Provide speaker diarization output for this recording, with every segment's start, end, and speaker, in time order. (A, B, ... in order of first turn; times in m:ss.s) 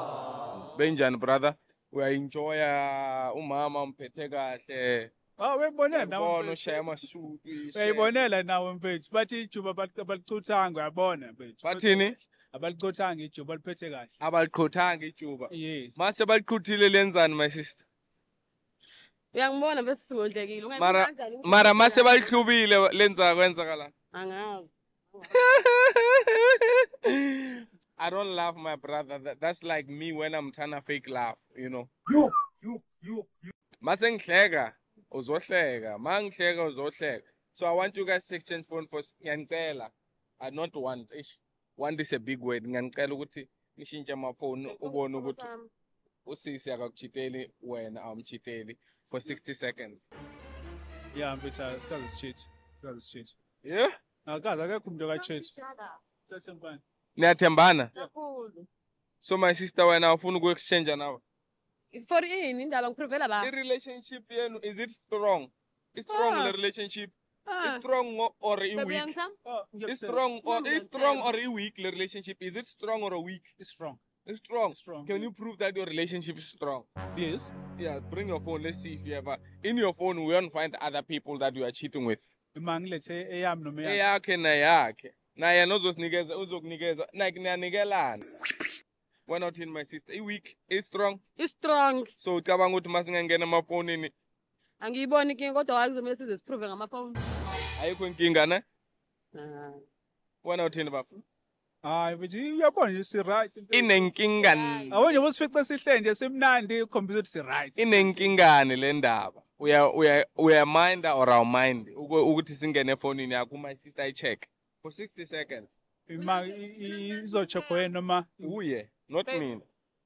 0:00.6-0:05.1 A
0:05.4-0:06.8 B
0:05.9-0:08.1 A
0:07.7-0:14.1 B
0:11.6-0:12.2 A
0:14.2-0:17.8 A
0:15.5-0:16.0 B
0:19.3-0:22.4 C
0:20.8-0:23.9 A
0:24.1-0:25.4 C
0:25.3-0:31.9 A
0:33.8-0:45.4 A
0:44.6-0:45.7 C
0:46.2-0:50.0 A
0:51.1-0:53.4 B
0:53.6-0:53.9 A
0:54.2-0:55.5 B
0:55.1-0:56.0 C
0:56.2-0:56.8 B
0:57.2-0:57.9 A
0:57.9-0:58.7 C
0:59.2-1:01.2 A
1:01.9-1:03.5 C
1:03.4-1:07.1 A
1:06.1-1:06.5 C
1:07.5-1:07.8 C
1:07.6-1:09.1 A
1:08.7-1:09.4 C
1:09.4-1:10.2 B
1:09.9-1:13.5 A
1:10.4-1:11.4 C
1:13.6-1:14.0 B
1:14.2-1:16.9 A
1:14.7-1:15.2 B
1:17.1-1:17.5 B
1:17.7-1:22.2 A
1:22.5-1:24.0 B
1:23.8-1:28.2 A
1:29.3-1:31.2 A
1:31.4-1:32.1 C
1:32.2-1:34.1 A
1:34.8-1:37.6 C
1:37.8-1:38.6 A
1:39.3-1:39.8 C
1:40.4-1:41.1 A
1:41.8-1:44.1 B
1:43.7-1:44.9 A
1:44.4-1:45.2 C
1:44.9-1:48.3 B
1:47.8-1:55.7 A
1:56.1-1:58.5 B
1:56.2-1:57.9 C
1:58.4-1:59.6 A